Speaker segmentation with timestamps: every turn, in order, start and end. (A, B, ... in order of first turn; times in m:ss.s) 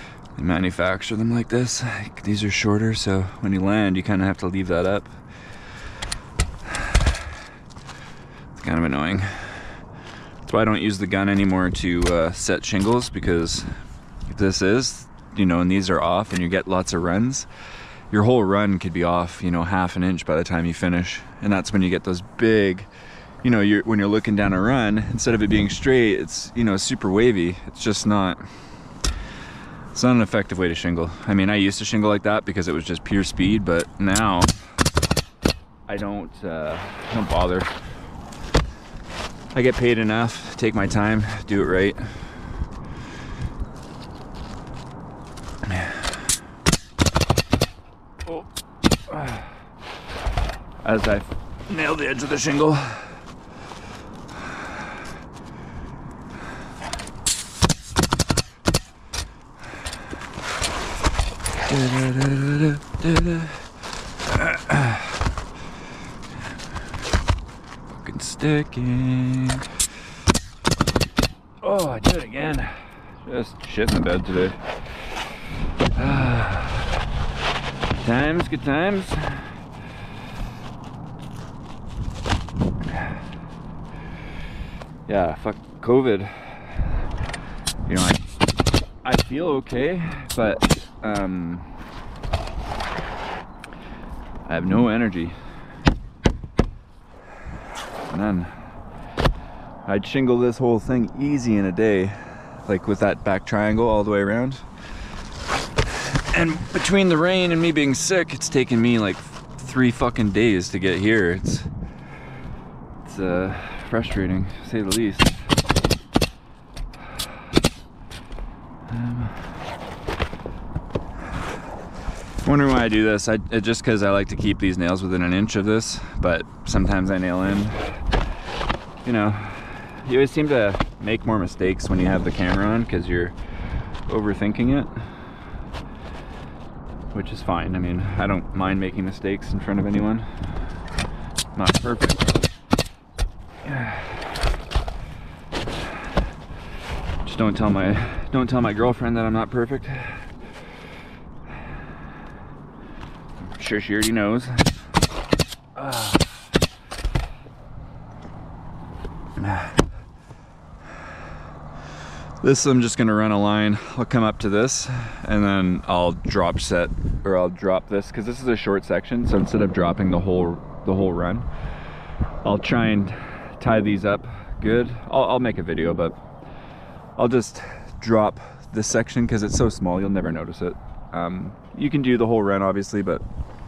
0:00.4-0:05.1 A
0:06.7-0:07.2 A
0:08.6-0:09.8 A
0:10.4-0:13.7 A
0:14.3-0:17.5 A
0:18.1-0:22.9 A
0:23.4-0:28.4 A
0:29.9-0:34.6 A
0:35.9-0:37.7 A
0:39.5-0:42.2 A
0:45.6-0:46.2 A
0:49.1-0:49.5 A
0:50.8-0:53.2 A
1:01.6-1:03.7 A
1:04.2-1:05.2 A
1:07.9-1:09.7 A
1:11.6-1:14.8 A
1:15.9-1:17.0 A
1:17.9-1:19.6 A
1:25.1-1:27.0 A
1:27.9-1:28.2 A
1:29.0-1:31.8 A
1:34.4-1:35.4 A
1:38.0-1:38.6 A
1:39.9-1:44.7 A
1:45.9-1:51.7 A
1:53.0-1:55.4 A
1:58.9-1:59.5 A
2:02.4-2:08.0 A
2:09.0-2:15.1 A
2:17.1-2:20.3 A
2:21.5-2:22.4 A
2:23.6-2:24.3 A
2:27.2-2:30.3 A
2:33.4-2:34.8 A
2:35.8-2:36.5 A
2:39.4-2:39.9 A
2:42.4-2:51.5 A
2:52.4-2:56.2 A
2:57.2-3:03.2 A